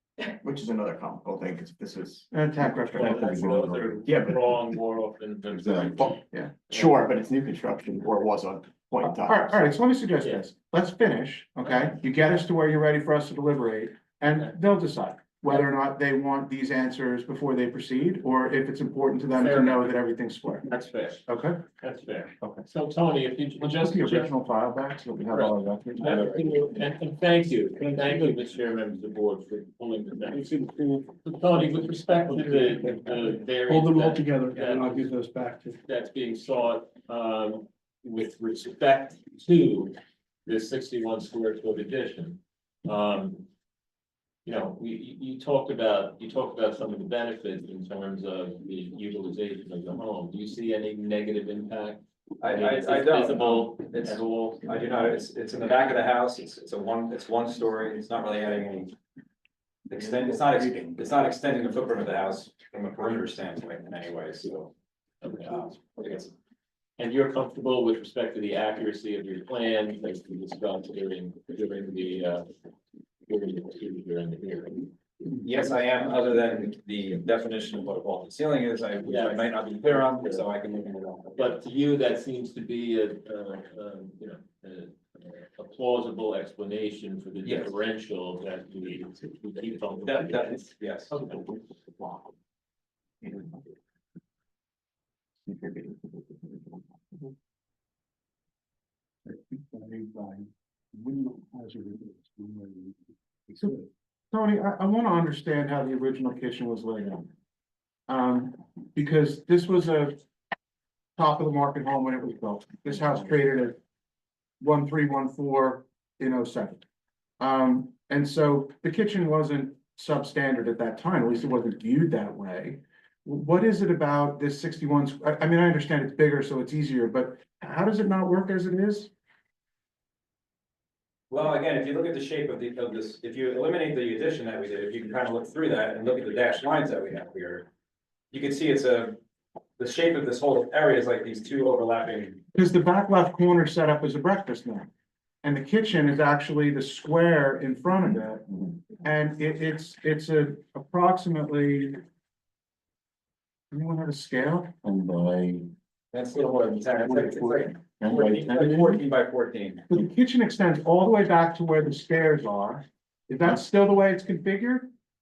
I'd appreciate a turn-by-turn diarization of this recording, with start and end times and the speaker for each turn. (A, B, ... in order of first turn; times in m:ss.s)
0:00.4-0:04.8 A
0:02.3-0:03.9 B
0:02.8-0:06.2 C
0:05.5-0:09.6 A
0:06.7-0:07.0 C
0:09.0-0:20.7 B
0:19.3-0:20.0 C
0:20.6-0:24.5 C
0:21.3-0:21.6 B
0:22.4-0:22.7 B
0:23.6-0:26.5 B
0:25.2-0:30.5 C
0:30.3-0:31.2 D
0:31.2-0:35.1 C
0:32.4-0:32.7 D
0:33.7-0:35.7 D
0:35.8-0:43.5 C
0:44.4-0:54.8 C
0:52.4-0:58.9 E
0:59.9-1:04.7 E
1:05.2-1:05.8 C
1:05.8-1:06.3 E
1:07.0-1:12.5 C
1:13.3-1:14.9 C
1:15.4-1:21.5 E
1:19.0-1:20.5 C
1:21.3-1:31.2 C
1:27.4-1:27.7 E
1:30.0-1:31.1 E
1:31.1-1:32.3 A
1:33.2-1:33.6 A
1:35.4-1:37.3 A
1:39.7-1:40.4 A
1:41.0-1:42.9 A
1:44.3-1:47.3 B
1:48.1-1:50.2 B
1:51.2-1:53.8 B
1:54.6-1:56.8 B
1:57.4-2:09.1 B
2:11.3-2:17.7 E
2:18.3-2:19.2 E
2:19.8-2:22.4 E
2:22.5-2:24.9 B
2:25.4-2:28.4 B
2:29.0-2:32.0 B
2:33.7-2:34.7 B
2:34.8-2:35.7 A
2:36.1-2:39.8 E
2:38.0-2:39.0 B
2:39.9-2:44.9 B